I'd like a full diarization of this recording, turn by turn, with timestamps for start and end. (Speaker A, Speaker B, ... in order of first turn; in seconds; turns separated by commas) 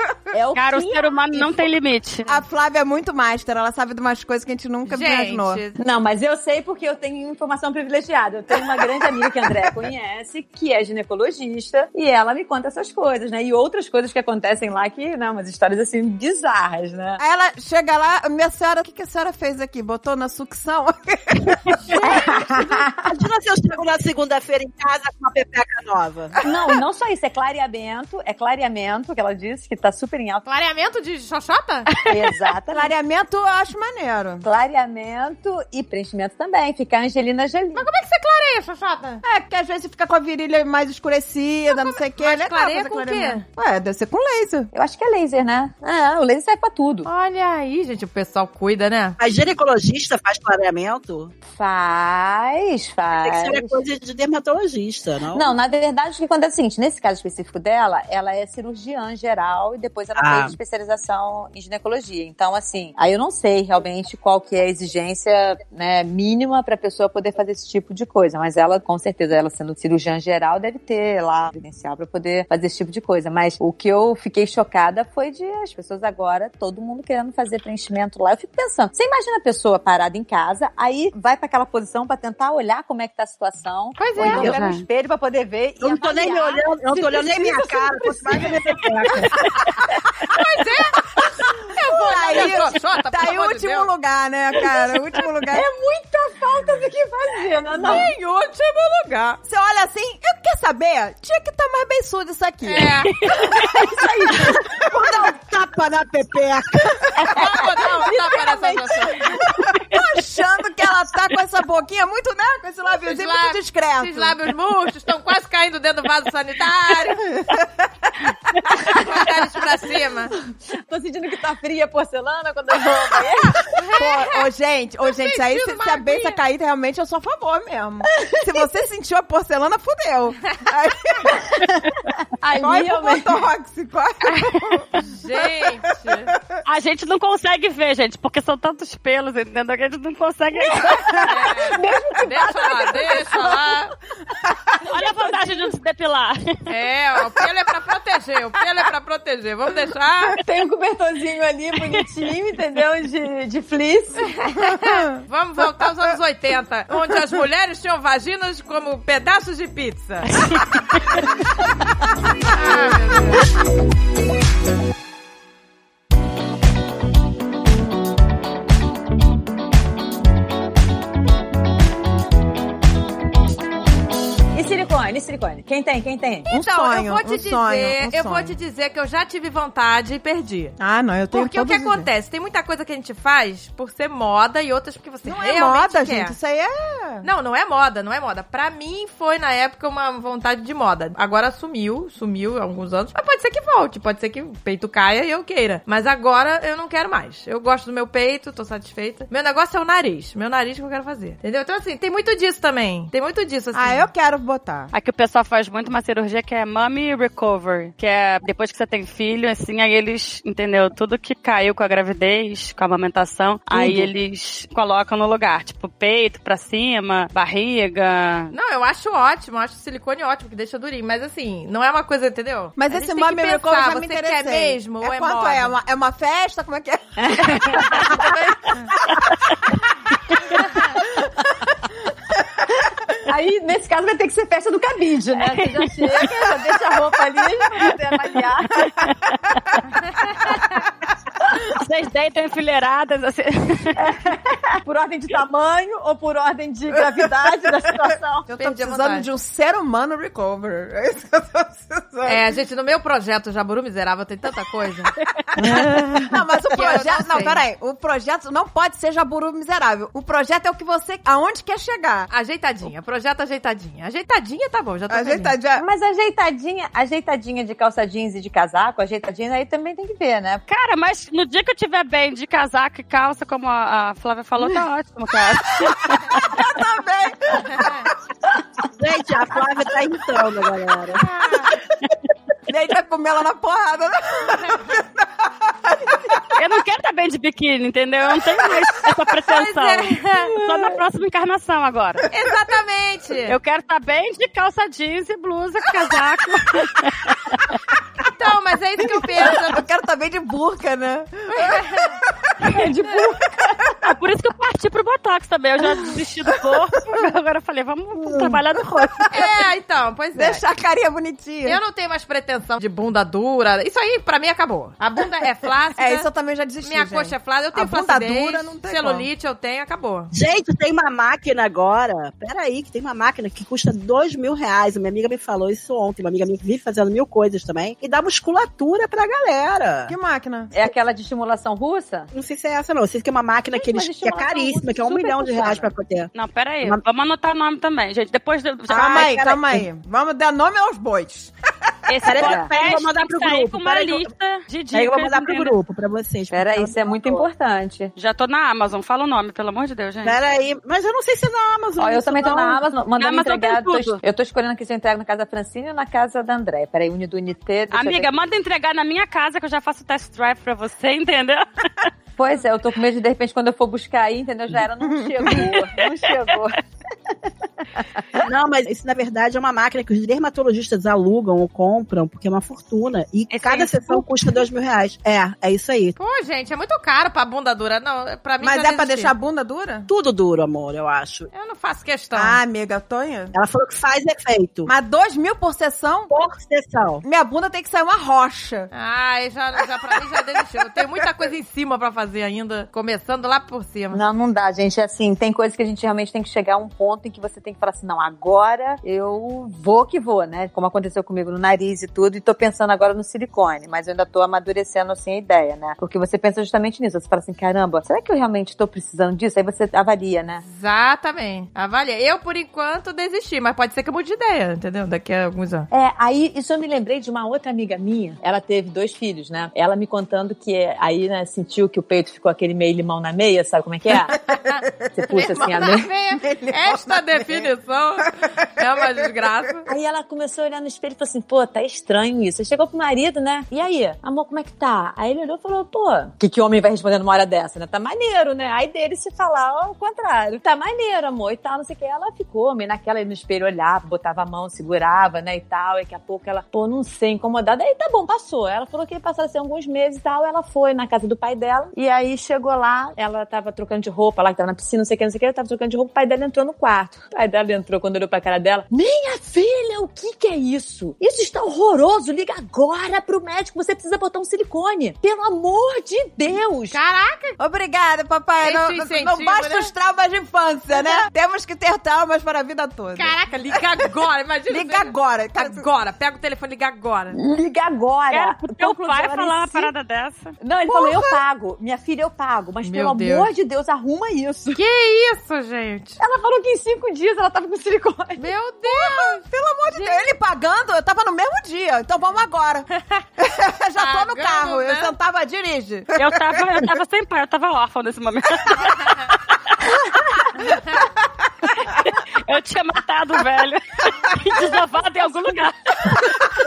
Speaker A: 0.3-1.7, Speaker B: 0.5-2.3, Speaker C: 2.3-5.6, Speaker D: 4.9-5.8, Speaker A: 5.8-17.2, Speaker C: 17.2-22.6, Speaker A: 22.0-22.9, Speaker E: 22.3-26.4, Speaker A: 26.4-30.5, Speaker D: 30.5-31.9, Speaker A: 32.1-32.9, Speaker C: 32.7-34.5, Speaker A: 34.4-37.9, Speaker D: 37.8-39.2, Speaker C: 39.2-44.7, Speaker D: 41.7-43.5, Speaker A: 44.7-47.1, Speaker D: 47.1-49.2, Speaker E: 49.2-51.3, Speaker A: 51.5-53.8, Speaker E: 53.1-55.5, Speaker A: 55.3-89.1, Speaker E: 60.2-60.5, Speaker D: 84.0-84.5, Speaker E: 84.2-84.6, Speaker B: 84.4-84.8, Speaker E: 85.8-89.5, Speaker D: 90.3-93.9, Speaker C: 91.4-95.7, Speaker A: 95.5-98.1, Speaker D: 97.7-99.4, Speaker C: 99.5-103.1, Speaker D: 102.6-103.3, Speaker B: 103.1-103.5, Speaker A: 103.5-105.1, Speaker C: 103.8-107.4, Speaker E: 104.9-106.6, Speaker A: 107.2-109.2, Speaker D: 107.3-109.3, Speaker C: 109.2-114.4, Speaker D: 112.9-117.2, Speaker C: 117.4-117.7, Speaker D: 118.7-120.3, Speaker A: 120.4-123.8, Speaker D: 123.8-124.3, Speaker C: 124.0-131.6, Speaker D: 125.1-126.4, Speaker A: 132.4-133.5, Speaker C: 132.6-135.5, Speaker B: 134.3-134.8, Speaker D: 135.0-136.3, Speaker B: 136.7-141.3, Speaker A: 140.8-143.6, Speaker D: 141.2-143.9, Speaker B: 144.8-146.5, Speaker D: 146.7-150.4, Speaker A: 150.4-154.3, Speaker D: 154.6-160.5, Speaker D: 162.5-163.4, Speaker A: 174.5-176.5, Speaker D: 176.5-180.8, Speaker C: 176.5-178.6, Speaker C: 180.8-182.1, Speaker D: 181.3-186.3, Speaker C: 185.2-187.3, Speaker D: 187.2-204.1, Speaker C: 203.7-204.9, Speaker B: 204.9-218.5, Speaker C: 213.7-214.1, Speaker D: 218.5-225.8, Speaker C: 222.8-228.3, Speaker A: 227.2-228.3, Speaker D: 227.9-228.9, Speaker C: 229.0-229.7, Speaker C: 231.0-231.6, Speaker A: 233.3-239.1, Speaker B: 239.0-239.3, Speaker D: 240.2-240.4, Speaker B: 241.7-244.1, Speaker A: 244.0-248.5, Speaker C: 248.5-252.4, Speaker D: 248.5-249.3, Speaker D: 252.2-255.1, Speaker A: 255.6-256.4, Speaker C: 255.6-262.3, Speaker D: 256.7-257.6, Speaker D: 262.3-265.6, Speaker C: 265.1-265.9, Speaker A: 265.8-270.6, Speaker B: 270.7-276.5, Speaker C: 276.5-278.0, Speaker D: 277.7-278.1, Speaker E: 279.0-281.2, Speaker D: 281.2-281.7, Speaker C: 282.7-285.3, Speaker C: 285.9-286.4, Speaker B: 286.6-292.3, Speaker D: 289.4-290.9, Speaker D: 292.3-293.6, Speaker B: 293.5-297.8, Speaker D: 298.3-299.8, Speaker C: 299.5-301.8, Speaker D: 301.5-302.2, Speaker A: 302.7-303.5, Speaker B: 304.0-309.4, Speaker C: 308.1-309.4, Speaker D: 309.3-310.6, Speaker C: 310.4-311.8, Speaker D: 311.6-316.3, Speaker C: 316.0-319.3, Speaker D: 316.8-320.3, Speaker E: 320.3-330.1, Speaker C: 330.1-330.7, Speaker A: 330.7-332.3, Speaker E: 332.3-336.3, Speaker A: 333.7-335.9, Speaker B: 336.3-339.3, Speaker E: 338.9-339.9, Speaker C: 338.9-341.5, Speaker B: 342.1-345.8, Speaker E: 342.2-344.3, Speaker A: 342.4-342.7, Speaker E: 344.9-347.4, Speaker A: 346.5-348.1, Speaker B: 348.2-350.4, Speaker E: 350.2-352.8, Speaker A: 352.0-358.3, Speaker B: 353.2-354.2, Speaker B: 357.9-362.1, Speaker A: 362.4-367.8, Speaker C: 365.1-365.5, Speaker B: 365.7-366.0, Speaker E: 368.4-376.2, Speaker B: 373.5-374.2, Speaker D: 376.2-379.3, Speaker C: 378.6-380.1, Speaker E: 380.1-381.5, Speaker D: 381.5-382.6, Speaker C: 382.4-383.5, Speaker E: 383.5-384.9, Speaker C: 384.9-386.3, Speaker E: 386.3-387.2, Speaker C: 387.2-388.9, Speaker D: 388.9-394.2, Speaker A: 394.1-410.6, Speaker D: 410.7-415.9, Speaker A: 415.9-424.4, Speaker D: 424.7-429.9, Speaker A: 425.1-426.1, Speaker C: 426.4-427.6, Speaker A: 429.9-467.0, Speaker D: 466.9-467.6, Speaker C: 467.6-473.4, Speaker D: 468.6-469.9, Speaker D: 470.9-471.2, Speaker D: 473.2-477.4, Speaker C: 474.7-475.9, Speaker A: 477.3-479.9, Speaker B: 478.3-480.6, Speaker A: 480.6-484.8, Speaker C: 480.9-481.4, Speaker D: 482.8-483.5, Speaker D: 484.7-486.2, Speaker A: 486.2-488.5, Speaker D: 488.4-490.4, Speaker C: 488.9-492.9, Speaker C: 493.4-496.6, Speaker D: 494.0-495.1, Speaker B: 496.1-500.5, Speaker B: 501.8-506.4